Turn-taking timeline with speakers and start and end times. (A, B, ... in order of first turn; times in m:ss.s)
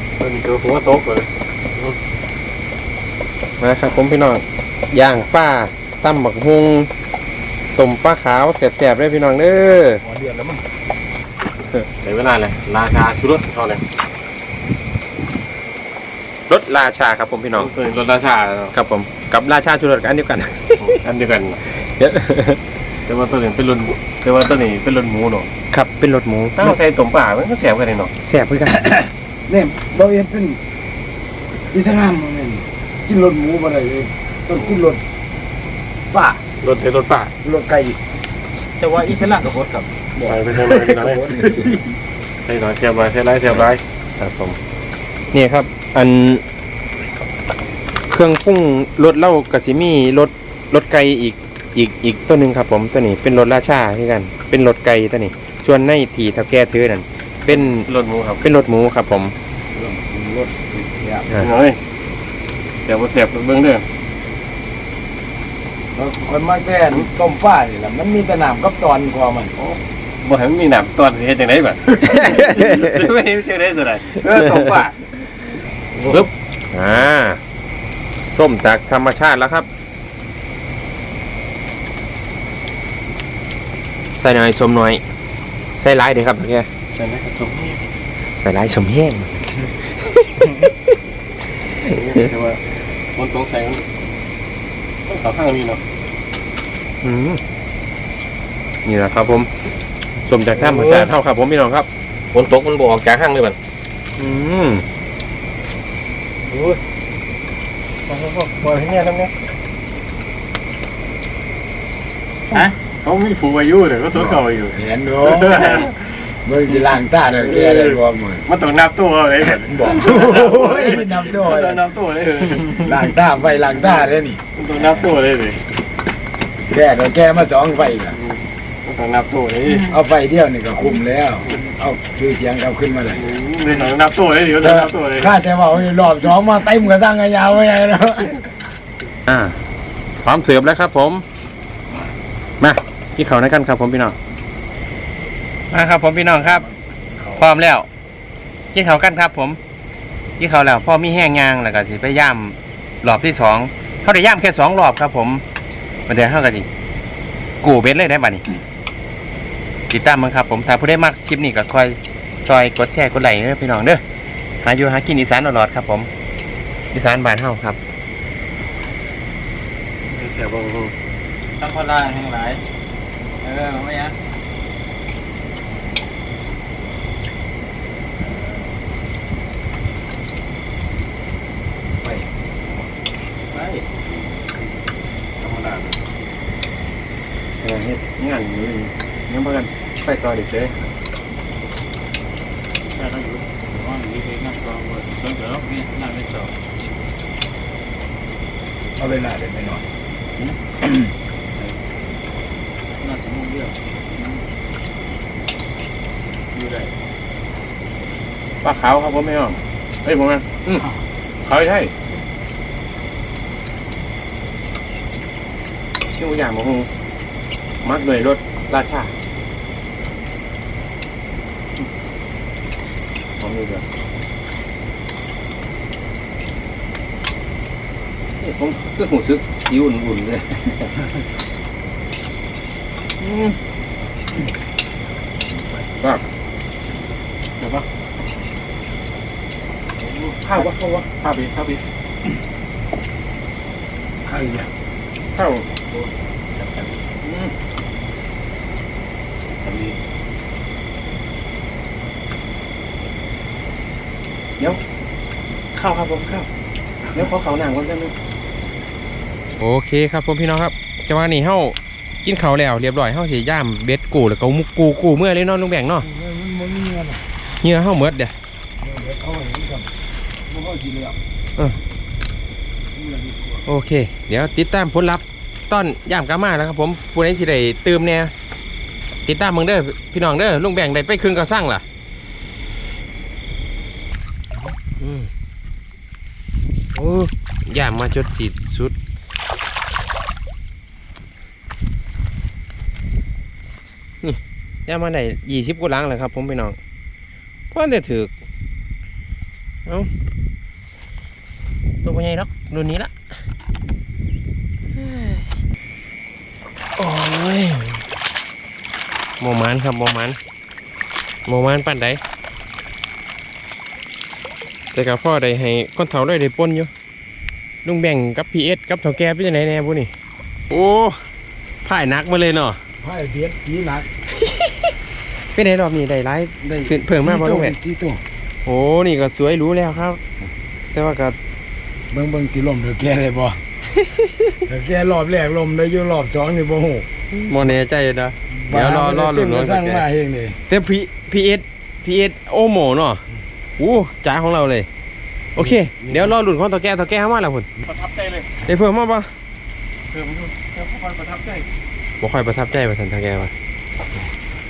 0:00.2-0:02.0 A
0:03.6-0:06.9 B
0:07.8-0:10.0 B
0:10.0-0:10.6 C
0:12.0-0:13.8 A
0:16.5-0:17.7 B
0:17.6-0:18.7 A
0:18.7-0:21.0 B
0:20.8-0:21.6 A
0:22.0-0:22.6 B
0:23.1-0:25.5 A
0:25.7-0:26.8 B
0:26.6-0:28.1 A
0:28.2-0:28.9 B
0:28.7-0:30.6 C
0:31.7-0:35.0 C
0:36.1-0:36.4 C
0:36.6-0:37.3 A
0:37.4-0:38.0 C
0:38.8-0:39.9 D
0:40.2-0:41.8 C
0:40.2-0:41.4 A
0:42.4-0:43.8 A
0:44.2-0:44.6 B
0:45.3-0:46.4 B
0:48.1-0:57.9 B
0:57.5-0:58.4 A
0:58.4-0:59.3 B
0:59.7-1:01.3 C
1:01.4-1:01.8 A
1:02.9-1:03.8 A
1:05.9-1:09.5 C
1:09.6-1:15.1 A
1:12.1-1:13.0 B
1:14.2-1:14.8 B
1:16.0-1:16.3 A
1:16.1-1:17.4 B
1:18.3-1:19.7 B
1:24.2-1:25.0 B
1:25.8-1:26.7 B
1:27.0-1:27.8 A
1:28.4-1:30.9 B
1:31.7-1:32.2 B
1:31.9-1:32.6 A
1:33.1-1:33.9 A
1:35.1-1:35.8 A
1:37.0-1:37.4 B
1:38.8-1:39.5 B
1:40.3-1:41.9 B
1:40.6-1:41.1 A
1:42.3-1:43.6 A
1:44.2-1:44.8 B
1:46.5-1:46.8 A
1:48.1-1:49.3 A
1:52.5-1:56.1 A
1:54.7-1:58.4 C
1:57.4-2:03.0 A
1:59.6-2:01.8 C
2:02.8-2:04.4 C
2:04.6-2:05.6 A
2:06.6-2:08.2 C
2:08.1-2:09.9 A
2:09.8-2:13.4 C
2:13.2-2:15.4 A
2:14.6-2:18.4 C
2:19.3-2:19.6 B
2:20.2-2:21.2 B
2:22.6-2:24.2 B
2:25.7-2:26.6 B
2:26.4-2:27.4 C
2:27.4-2:27.9 B
2:28.7-2:29.6 B
2:30.4-2:35.4 B
2:36.1-2:36.7 B
2:37.6-2:38.4 B
2:39.9-2:44.0 B
2:44.6-2:46.1 B
2:46.9-2:47.8 B
2:50.2-2:50.9 A
2:51.6-2:52.6 D
2:53.4-2:54.2 D
3:03.5-3:03.9 D
3:05.4-3:05.9 A
3:07.6-3:10.8 B
3:12.9-3:16.6 D
3:19.0-3:19.9 C
3:20.8-3:21.1 C
3:23.0-3:24.4 D
3:26.5-3:26.9 D
3:28.6-3:30.9 B
3:31.4-3:31.9 B
3:36.1-3:36.9 B
3:37.8-3:39.2 B
3:43.4-3:43.8 B
3:48.4-3:51.0 B
3:53.2-3:53.6 B
3:55.5-3:55.8 C
3:57.6-3:57.8 A
4:00.2-4:00.7 A
4:00.4-4:01.1 B
4:01.2-4:01.9 A
4:04.2-4:04.7 C
4:05.4-4:05.7 B
4:06.6-4:06.9 D
4:07.2-4:07.5 B
4:15.7-4:16.5 B
4:17.2-4:18.1 B
4:19.6-4:26.1 B
4:26.0-4:27.2 C
4:27.6-4:28.3 B
4:28.8-4:29.9 C
4:30.5-4:31.2 C
4:33.0-4:33.7 C
4:33.7-4:38.3 B
4:39.3-4:41.8 B
4:45.0-4:45.3 B
4:47.0-4:48.9 B
4:54.2-4:56.8 B
4:57.7-4:58.3 B
5:02.0-5:03.1 B
5:05.0-5:05.6 B
5:07.0-5:08.0 B
5:09.4-5:10.4 B
5:11.5-5:12.2 B
5:14.9-5:16.9 B
5:17.8-5:20.1 B
5:20.7-5:21.2 B
5:21.8-5:22.8 B
5:23.0-5:24.1 C
5:24.4-5:24.9 B
5:25.5-5:27.8 B
5:26.6-5:28.2 C
5:28.6-5:30.2 B
5:30.9-5:31.4 B
5:32.1-5:33.6 C
5:33.9-5:34.6 B
5:34.7-5:37.1 C
5:37.3-5:40.0 B
5:38.5-5:40.6 C
5:40.7-5:43.2 B
5:43.8-5:44.9 B
5:45.6-5:47.7 B
5:45.6-5:46.3 C
5:47.8-5:48.5 A
5:48.7-5:49.3 B
5:50.1-5:51.7 A
5:52.2-5:53.5 B